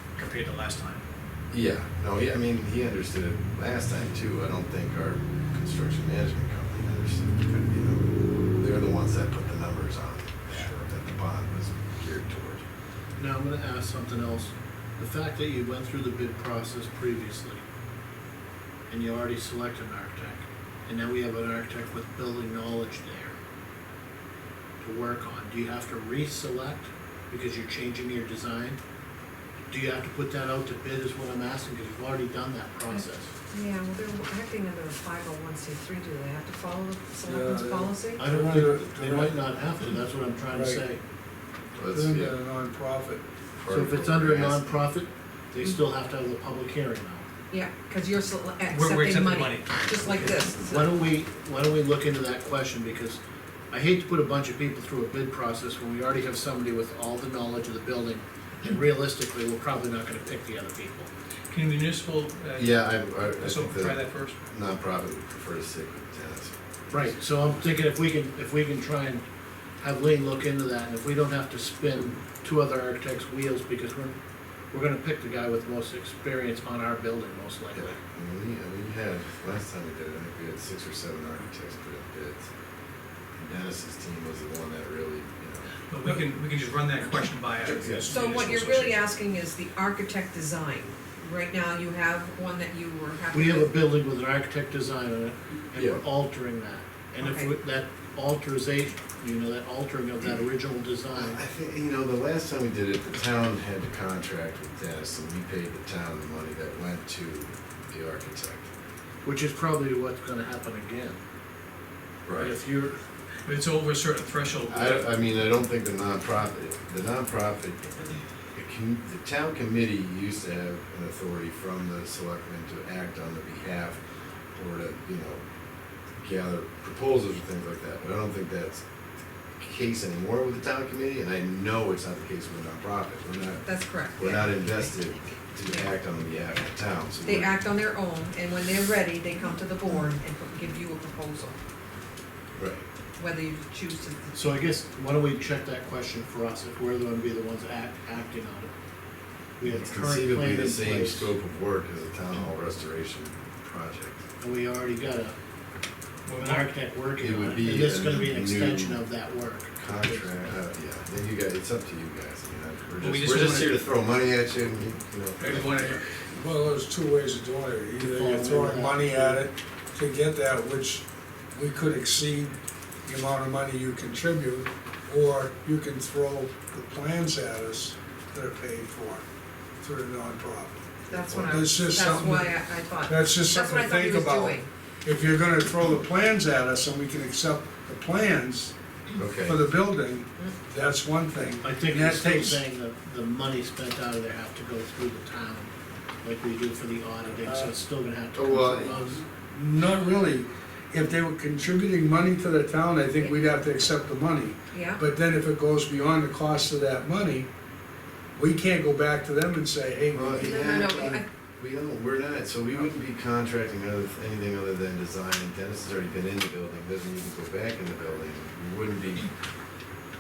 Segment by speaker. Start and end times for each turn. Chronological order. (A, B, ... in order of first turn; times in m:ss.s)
0:00.2-0:01.0 A
0:01.5-0:12.6 B
0:13.2-0:17.6 C
0:18.9-0:23.4 C
0:24.8-0:28.8 C
0:29.7-0:33.3 C
0:32.9-0:38.3 D
0:37.2-0:39.4 E
0:38.2-0:41.0 C
0:40.5-0:40.8 E
0:41.8-0:42.4 B
0:41.9-0:43.2 E
0:43.6-0:44.9 B
0:43.7-0:47.3 C
0:47.5-0:50.9 D
0:48.7-0:49.9 A
0:50.1-0:53.2 C
0:53.7-1:01.1 C
1:01.5-1:04.4 A
1:02.6-1:07.5 B
1:06.9-1:09.2 C
1:09.8-1:14.2 C
1:14.7-1:18.0 C
1:17.8-1:22.5 B
1:23.4-1:25.7 B
1:25.9-1:29.1 A
1:27.7-1:28.2 B
1:28.1-1:33.7 D
1:33.3-1:41.4 C
1:35.8-1:36.0 B
1:37.2-1:37.5 D
1:41.2-1:48.7 B
1:49.2-1:51.2 C
1:52.3-1:52.6 B
1:52.4-1:53.0 C
1:53.5-1:55.1 A
1:54.7-2:04.0 B
2:04.6-2:05.4 B
2:06.2-2:08.8 B
2:09.6-2:17.6 B
2:13.7-2:14.5 D
2:17.2-2:21.6 D
2:22.6-2:22.9 B
2:23.2-2:24.3 D
2:24.3-2:28.7 C
2:29.6-2:31.3 C
2:29.7-2:34.2 B
2:34.4-2:35.4 C
2:36.3-2:36.7 A
2:36.4-2:40.5 C
2:37.2-2:39.1 B
2:39.8-2:46.0 B
2:43.0-2:43.7 A
2:45.4-2:46.0 A
2:46.2-2:59.2 E
2:48.0-2:49.4 C
2:59.8-3:00.8 E
3:01.1-3:04.7 D
3:01.4-3:08.8 E
3:09.2-3:09.6 B
3:09.4-3:12.6 E
3:11.6-3:19.2 C
3:18.4-3:19.2 B
3:19.5-3:27.5 E
3:24.7-3:25.0 D
3:28.4-3:30.9 E
3:30.1-3:39.3 B
3:30.6-3:31.2 D